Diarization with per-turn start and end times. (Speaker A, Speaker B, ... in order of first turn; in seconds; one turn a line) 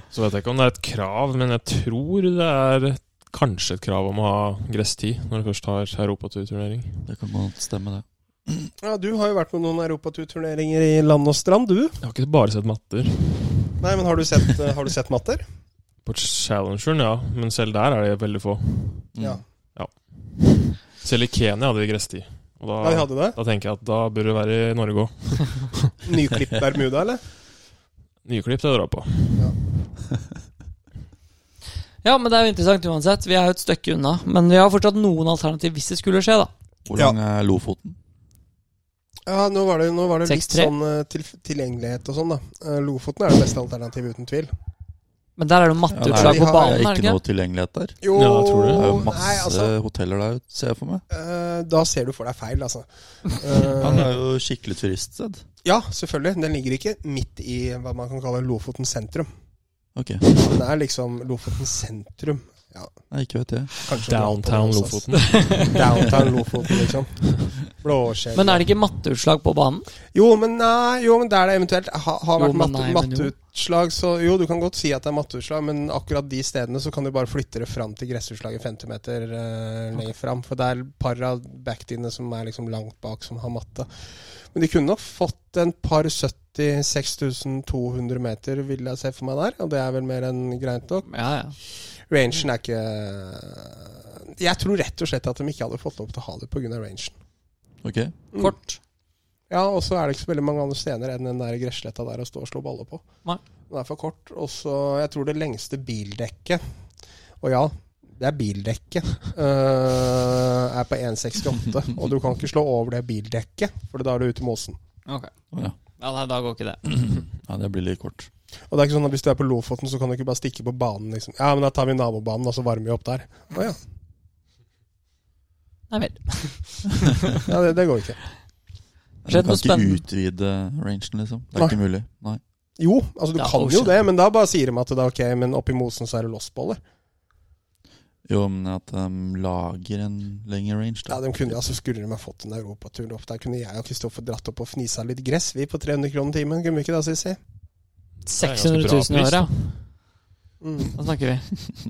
Speaker A: 0.1-7.0
Speaker B: 7.1-8.7
Speaker C: 8.8-12.0
Speaker A: 12.0-13.7
Speaker C: 13.8-15.4
Speaker A: 16.1-19.1
Speaker B: 19.1-19.4
Speaker A: 19.8-25.9
Speaker C: 22.8-23.4
Speaker C: 26.0-27.2
Speaker A: 28.2-29.5
Speaker D: 32.0-36.5
Speaker B: 36.9-38.0
Speaker C: 39.3-44.5
Speaker D: 40.2-40.7
Speaker D: 45.4-47.2
Speaker B: 45.9-48.0
Speaker C: 46.1-46.8
Speaker C: 48.0-49.7
Speaker A: 48.1-49.0
Speaker B: 48.7-51.0
Speaker C: 51.1-54.1
Speaker B: 53.8-55.4
Speaker C: 55.6-59.3
Speaker B: 60.0-60.3
Speaker C: 60.4-62.9
Speaker B: 63.1-63.7
Speaker C: 63.8-68.7
Speaker A: 63.9-66.3
Speaker D: 68.3-69.9
Speaker C: 70.1-83.9
Speaker D: 72.4-73.3
Speaker C: 84.5-91.1
Speaker D: 91.1-91.6
Speaker C: 92.1-97.2
Speaker B: 97.8-98.1
Speaker D: 98.4-98.8
Speaker C: 99.5-103.0
Speaker C: 103.7-106.6
Speaker C: 107.4-114.8
Speaker D: 116.0-117.2
Speaker B: 116.9-118.3
Speaker C: 118.7-123.8
Speaker D: 125.9-127.4
Speaker C: 127.3-128.2
Speaker B: 129.2-132.4
Speaker D: 129.3-130.0
Speaker C: 132.8-136.8
Speaker D: 133.4-133.9
Speaker B: 138.3-141.7
Speaker C: 141.1-147.4
Speaker D: 148.3-149.5
Speaker A: 148.4-149.7
Speaker C: 150.6-150.9
Speaker D: 150.9-151.5